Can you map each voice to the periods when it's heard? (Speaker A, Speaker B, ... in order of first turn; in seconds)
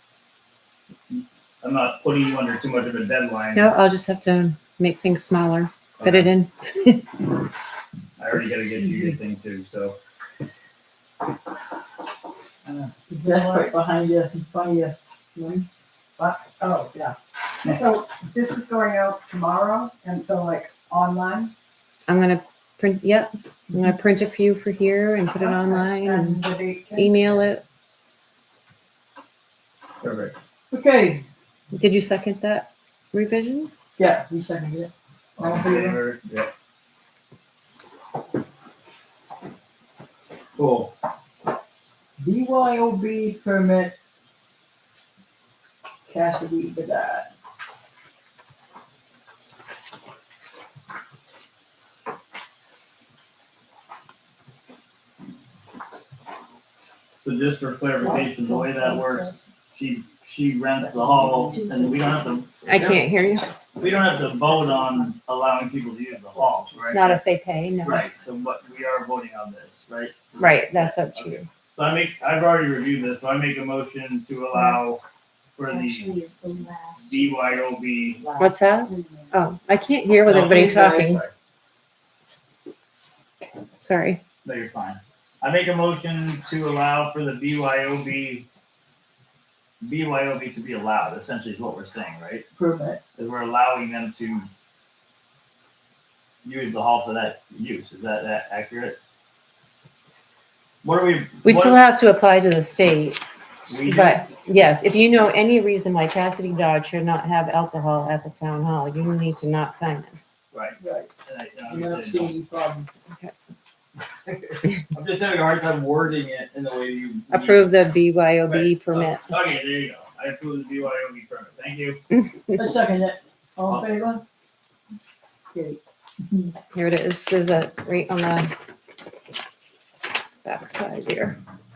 Speaker A: 1.1-3.7, 6.0-6.3, 8.2-10.0, 30.0-30.4, 35.4-36.5, 40.6-40.9, 57.2-63.0, 63.8-67.2, 67.8-75.0, 75.6-76.2, 77.0-78.2, 80.3-81.3, 84.4-88.5, 89.8-92.5, 93.2-94.5, 96.4-99.0, 100.8-101.8, 103.7-104.2, 110.5-112.3, 114.2-117.8, 118.4-122.0
Speaker B: 3.5-7.1, 22.1-27.6, 31.7-33.7, 62.7-63.5, 66.9-68.0, 70.4-71.5, 78.4-81.2, 83.8-84.2, 101.4-103.2, 103.8-110.4, 117.3-119.3, 126.7-128.5, 130.4-131.4
Speaker C: 8.6-9.0, 13.1-15.7, 30.7-31.2, 34.0-36.0, 42.2-44.0, 46.1-47.3, 92.6-93.0, 110.8-111.1, 111.7-112.9, 122.5-124.2, 125.5-126.5
Speaker D: 13.2-13.7, 16.2-21.5, 25.3-27.5, 78.8-79.4
Speaker E: 75.7-78.5